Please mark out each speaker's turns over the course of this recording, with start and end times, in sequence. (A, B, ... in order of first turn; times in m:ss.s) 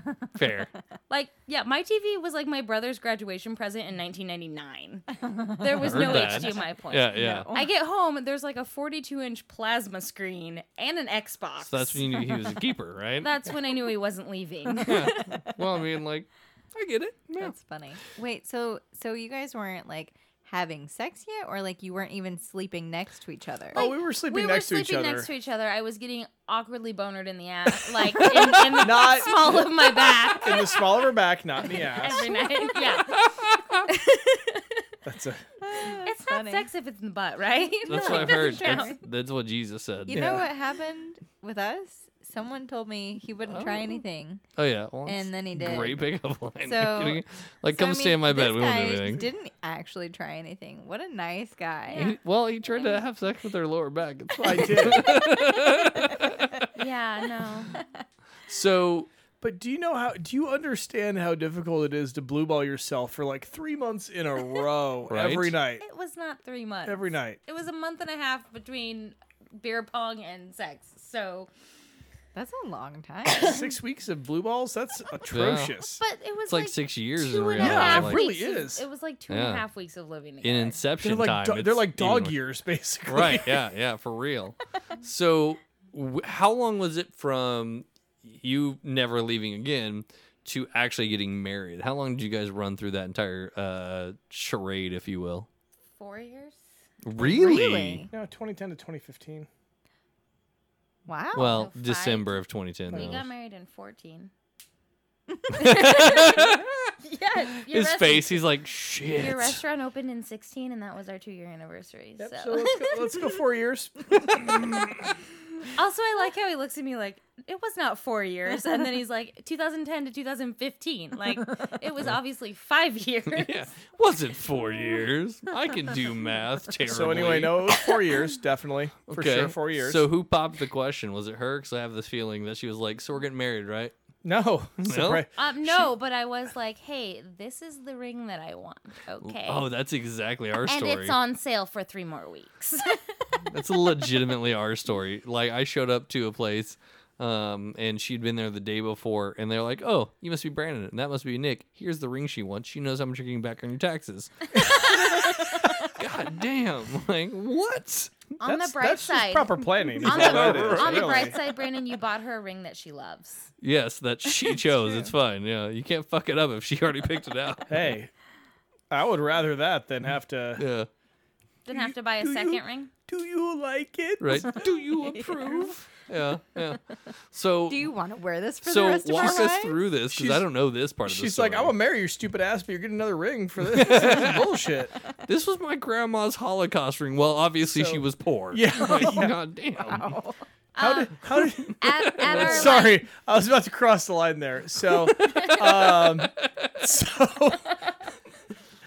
0:00.3-0:00.7 A
0:01.1-0:12.5 B
0:05.2-0:07.7 C
0:05.8-0:07.5 A
0:11.6-0:13.3 A
0:13.2-0:15.4 B
0:14.8-0:17.5 A
0:17.4-0:23.8 C
0:23.7-0:25.3 D
0:23.7-0:31.0 B
0:28.0-0:29.1 C
0:28.7-0:32.3 D
0:31.6-0:34.9 B
0:32.0-0:33.0 C
0:33.1-0:33.8 A
0:35.0-0:35.4 D
0:35.6-0:36.7 C
0:35.8-0:39.0 B
0:37.9-0:40.4 A
0:37.9-0:39.0 C
0:40.0-0:44.4 C
0:40.1-0:40.5 D
0:43.5-0:44.0 A
0:44.6-0:49.3 A
0:45.0-0:46.0 C
0:46.6-0:52.1 C
0:51.9-0:52.2 B
0:51.9-0:56.7 A
0:52.7-0:53.0 B
0:54.4-0:55.2 D
0:54.6-0:56.5 C
0:56.7-0:57.7 B
0:58.5-0:59.1 A
0:59.4-1:05.8 D
1:05.1-1:05.6 A
1:05.8-1:11.5 B
1:06.8-1:07.4 D
1:12.3-1:13.6 C
1:13.3-1:16.0 D
1:15.3-1:15.8 A
1:16.0-1:20.8 B
1:16.5-1:18.2 A
1:17.6-1:18.8 D
1:19.3-1:19.6 A
1:20.4-1:22.4 A
1:21.0-1:23.6 D
1:23.0-1:35.5 A
1:36.0-1:36.6 B
1:37.0-1:38.1 A
1:37.2-1:38.1 C
1:38.1-1:39.5 D
1:41.0-1:41.7 C
1:41.3-1:43.2 A
1:41.3-1:44.3 B
1:45.5-1:46.9 A
1:45.6-1:48.4 B
1:47.5-1:49.6 A
1:49.2-1:53.2 B
1:52.2-1:54.9 D
1:54.2-1:55.0 A
1:55.7-2:03.7 B
2:03.3-2:07.8 A
2:06.8-2:10.1 D
2:09.1-2:13.9 A
2:14.2-2:15.9 D
2:14.8-2:15.2 A
2:15.4-2:19.7 B
2:19.2-2:21.2 A
2:20.6-2:23.4 B
2:23.5-2:38.2 A
2:34.5-2:35.8 D
2:34.6-2:35.4 B
2:38.4-2:43.5 B
2:38.4-2:41.4 D
2:40.0-2:41.4 A
2:43.6-2:47.9 A
2:47.7-2:48.1 D
2:48.9-2:50.6 D
2:50.6-2:50.9 A
2:51.6-2:52.9 B
2:51.7-2:54.8 D
2:54.2-2:57.9 A
2:55.0-2:55.6 C
2:57.7-2:59.8 C
2:58.6-3:01.8 A
2:59.2-2:59.5 D
3:00.1-3:00.5 D
3:01.0-3:05.0 D
3:03.6-3:04.5 A
3:05.2-3:10.1 A
3:07.6-3:09.3 D
3:09.8-3:10.4 C
3:10.7-3:13.0 B
3:10.8-3:17.8 D
3:12.1-3:12.7 A
3:15.0-3:16.9 A